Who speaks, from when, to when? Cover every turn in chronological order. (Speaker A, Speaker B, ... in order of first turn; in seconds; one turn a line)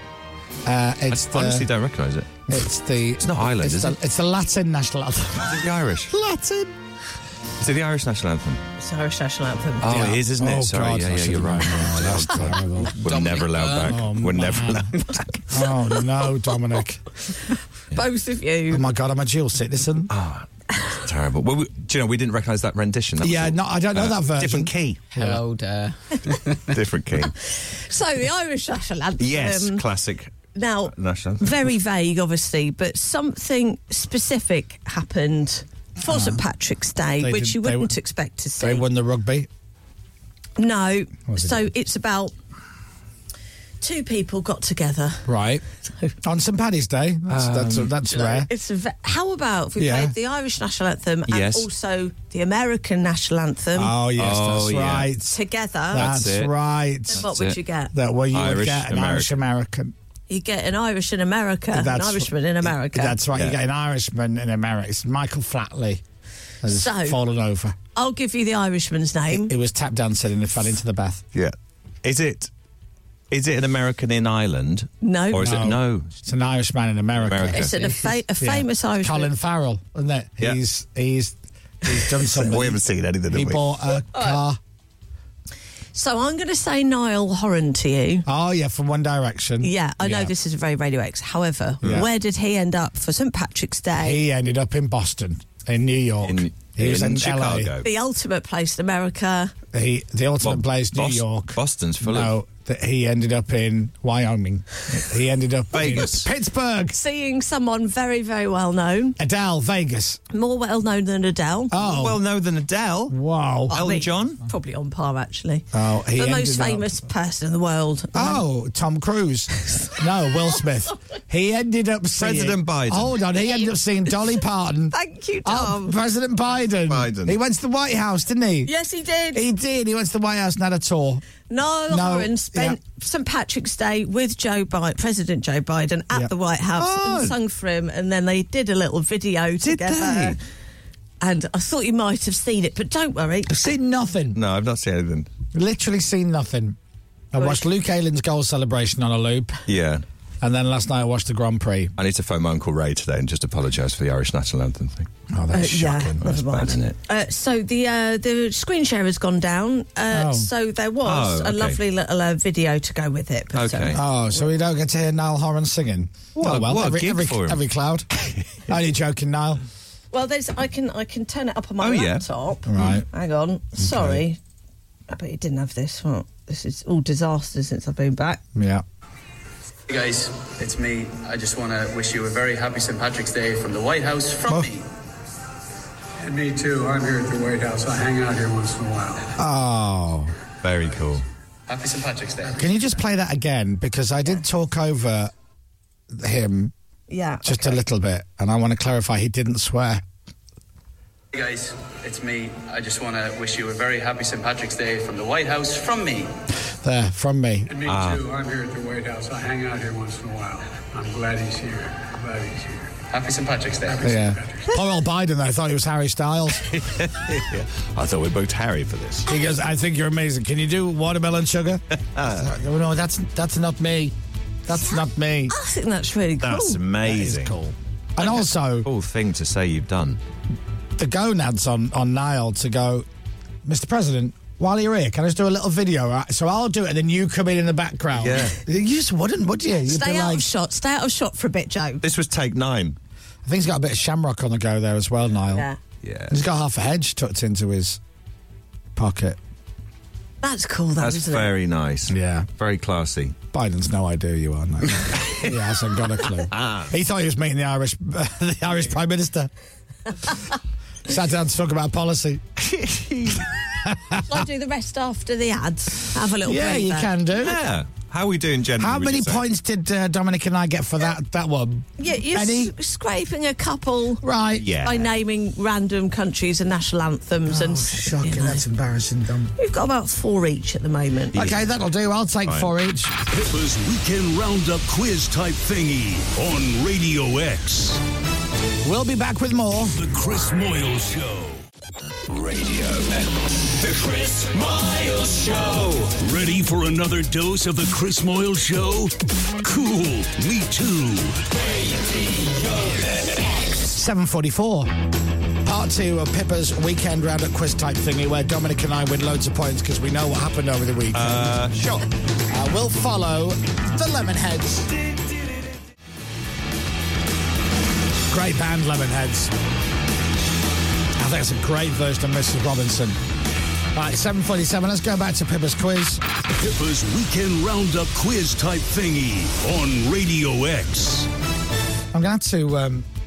Speaker A: 0.7-1.7
Speaker B: 1.1-2.6
Speaker A: 2.5-6.7
Speaker B: 3.2-4.0
Speaker B: 5.4-6.2
Speaker B: 7.6-8.6
Speaker C: 8.8-10.2
Speaker B: 9.8-15.3
Speaker A: 9.9-14.9
Speaker D: 13.1-13.9
Speaker A: 15.5-17.0
Speaker C: 17.4-18.8
Speaker A: 18.7-20.1
Speaker B: 20.1-25.1
Speaker A: 23.2-25.4
Speaker D: 25.1-26.7
Speaker B: 26.7-27.4
Speaker C: 27.4-29.8
Speaker B: 29.2-30.3
Speaker C: 30.6-38.9
Speaker B: 30.9-31.7
Speaker A: 36.0-36.4
Speaker A: 37.2-37.9
Speaker A: 38.6-39.5
Speaker C: 40.6-42.3
Speaker A: 41.3-41.7
Speaker C: 43.8-45.3
Speaker A: 45.3-45.6
Speaker A: 46.2-48.5
Speaker B: 47.3-47.9
Speaker C: 48.1-53.9
Speaker A: 49.8-50.1
Speaker B: 51.3-51.7
Speaker A: 53.8-55.4
Speaker B: 54.2-55.1
Speaker C: 55.3-56.1
Speaker B: 55.9-56.5
Speaker A: 55.9-57.3
Speaker C: 57.1-57.9
Speaker B: 57.2-57.6
Speaker A: 57.9-59.9
Speaker B: 58.3-59.4
Speaker C: 60.3-63.2
Speaker A: 61.7-66.0
Speaker A: 66.6-67.8
Speaker C: 66.7-67.2
Speaker C: 68.0-69.5
Speaker A: 69.3-71.2
Speaker B: 71.3-72.5
Speaker B: 73.3-76.1
Speaker C: 75.0-75.6
Speaker A: 75.3-77.7
Speaker B: 77.3-77.8
Speaker C: 77.5-79.3
Speaker A: 78.4-84.6
Speaker B: 82.3-83.7
Speaker C: 86.0-88.2
Speaker A: 88.3-90.3
Speaker C: 89.6-94.2
Speaker A: 91.8-92.1
Speaker A: 94.0-97.7
Speaker B: 96.2-97.9
Speaker C: 97.8-99.5
Speaker A: 99.7-107.0
Speaker B: 100.4-102.3
Speaker B: 105.7-106.3
Speaker C: 106.9-109.2
Speaker A: 109.2-110.2
Speaker C: 110.3-111.8
Speaker A: 111.7-112.2
Speaker B: 111.8-113.2
Speaker A: 113.1-113.7
Speaker C: 113.7-118.4
Speaker B: 113.7-114.4
Speaker A: 115.7-116.9
Speaker A: 118.1-128.7
Speaker B: 122.2-123.2
Speaker C: 124.9-126.0
Speaker B: 126.9-127.4
Speaker C: 128.7-129.4
Speaker A: 129.3-131.2
Speaker C: 131.5-140.4
Speaker A: 131.9-132.8
Speaker B: 136.8-137.3
Speaker B: 139.6-140.4
Speaker C: 141.2-143.7
Speaker A: 143.5-144.4
Speaker B: 144.3-145.3
Speaker A: 145.5-146.8
Speaker A: 147.3-149.6
Speaker C: 147.4-147.6
Speaker B: 149.7-150.0
Speaker A: 150.4-151.9
Speaker B: 152.0-155.1
Speaker A: 155.3-156.2
Speaker C: 155.5-164.2
Speaker B: 155.8-157.0
Speaker A: 160.1-160.5
Speaker B: 161.1-161.8
Speaker B: 163.6-164.0
Speaker A: 163.9-168.1
Speaker B: 166.4-167.6
Speaker B: 168.2-168.7
Speaker A: 168.7-169.6
Speaker C: 170.1-174.4
Speaker B: 171.8-172.2
Speaker A: 172.7-173.1
Speaker A: 173.8-174.2
Speaker C: 175.1-178.4
Speaker A: 178.6-178.8
Speaker E: 179.9-184.9
Speaker F: 186.2-189.3
Speaker A: 189.4-190.3
Speaker B: 190.6-191.2
Speaker E: 191.7-192.8
Speaker A: 192.5-195.3
Speaker A: 196.1-196.7
Speaker C: 197.1-197.8
Speaker A: 197.4-200.0
Speaker E: 201.3-206.3
Speaker A: 206.8-207.7
Speaker F: 207.7-213.0
Speaker B: 207.9-208.2
Speaker E: 213.1-214.1
Speaker F: 213.8-214.7
Speaker A: 214.0-216.7
Speaker B: 216.7-219.3
Speaker A: 219.3-224.2
Speaker B: 222.2-222.5
Speaker A: 224.7-225.6
Speaker C: 224.7-226.8
Speaker B: 226.4-227.6
Speaker A: 227.0-228.9
Speaker B: 228.2-230.2
Speaker A: 231.0-233.1
Speaker A: 233.7-240.5
Speaker B: 238.1-238.6
Speaker C: 239.8-242.0
Speaker B: 242.0-243.0
Speaker A: 243.4-245.7
Speaker C: 245.5-245.8
Speaker B: 246.0-246.4
Speaker A: 246.3-248.0
Speaker A: 248.9-249.4
Speaker C: 250.4-251.5
Speaker B: 251.0-253.4
Speaker A: 252.1-252.5
Speaker A: 253.5-259.5
Speaker B: 255.2-255.4
Speaker B: 256.5-256.9
Speaker A: 261.1-262.6
Speaker B: 262.7-263.4
Speaker A: 263.9-264.2
Speaker C: 264.2-267.1
Speaker A: 266.4-267.6
Speaker B: 267.4-269.4
Speaker A: 268.8-272.7
Speaker C: 272.0-274.2
Speaker A: 274.2-274.7
Speaker B: 274.6-275.1
Speaker C: 274.8-278.6
Speaker A: 277.5-279.5
Speaker C: 279.6-281.4
Speaker B: 281.3-281.6
Speaker A: 281.4-283.1
Speaker G: 283.3-288.0
Speaker A: 288.8-290.0
Speaker G: 289.9-291.6
Speaker G: 292.3-293.3
Speaker G: 293.8-301.5
Speaker A: 303.9-304.9
Speaker A: 305.6-311.6
Speaker B: 311.1-312.1
Speaker A: 312.5-315.1
Speaker A: 318.3-319.5
Speaker A: 321.2-323.2
Speaker A: 323.9-326.2
Speaker G: 326.6-331.3
Speaker A: 332.1-333.1